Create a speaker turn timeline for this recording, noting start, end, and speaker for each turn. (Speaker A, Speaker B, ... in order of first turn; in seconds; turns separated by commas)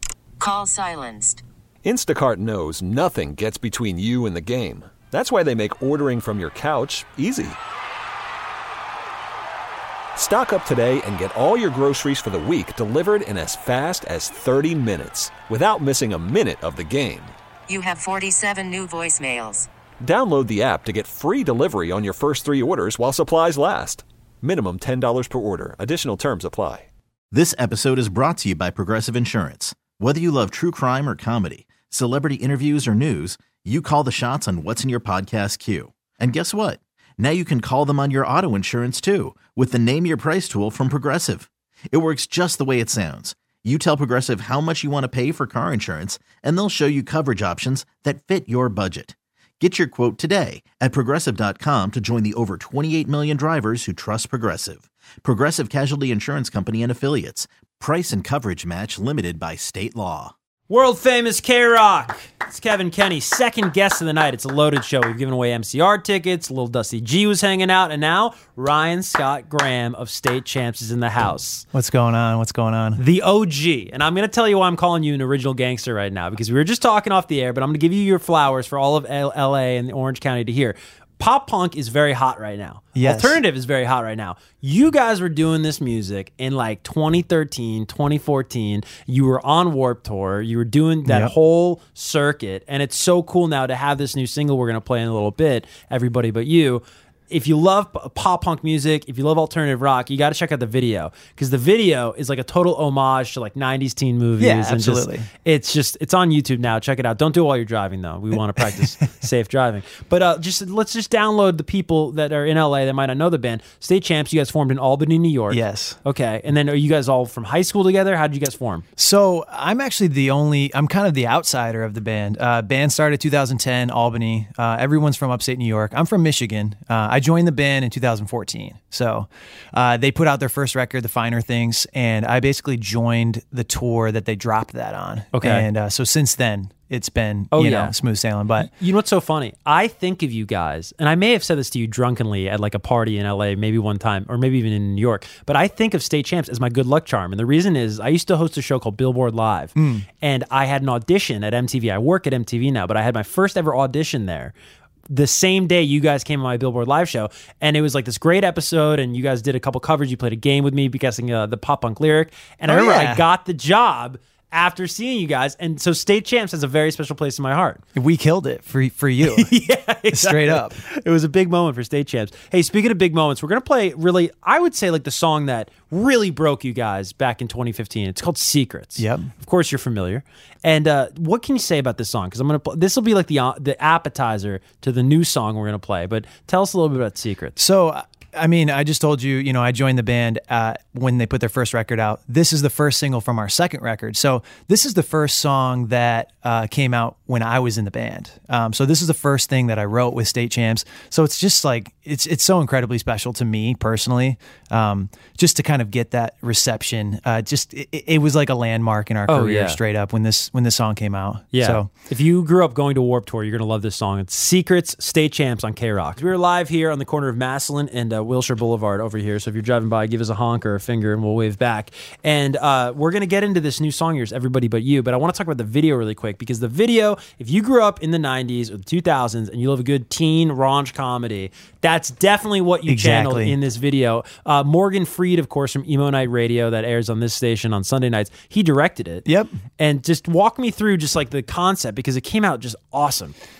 Speaker A: 0.4-1.4, Speaker B: 1.8-7.6, Speaker B: 10.2-17.3, Speaker A: 17.7-19.7, Speaker B: 20.0-26.9, Speaker C: 27.3-60.3, Speaker D: 60.7-71.7, Speaker E: 71.7-73.0, Speaker D: 73.0-118.8, Speaker E: 83.0-83.4, Speaker E: 91.0-91.3, Speaker E: 104.4-105.3, Speaker E: 115.5-116.0, Speaker E: 119.0-138.7, Speaker D: 135.3-135.7, Speaker D: 137.5-137.9, Speaker D: 138.6-154.5, Speaker E: 149.8-150.1, Speaker D: 155.1-167.8, Speaker E: 162.6-163.2, Speaker E: 167.9-169.5, Speaker D: 169.2-187.6, Speaker E: 170.1-170.8, Speaker E: 179.0-179.3, Speaker E: 187.6-211.9, Speaker D: 209.3-209.8, Speaker D: 211.5-239.2, Speaker E: 232.9-233.5, Speaker E: 239.2-239.5, Speaker D: 239.8-243.3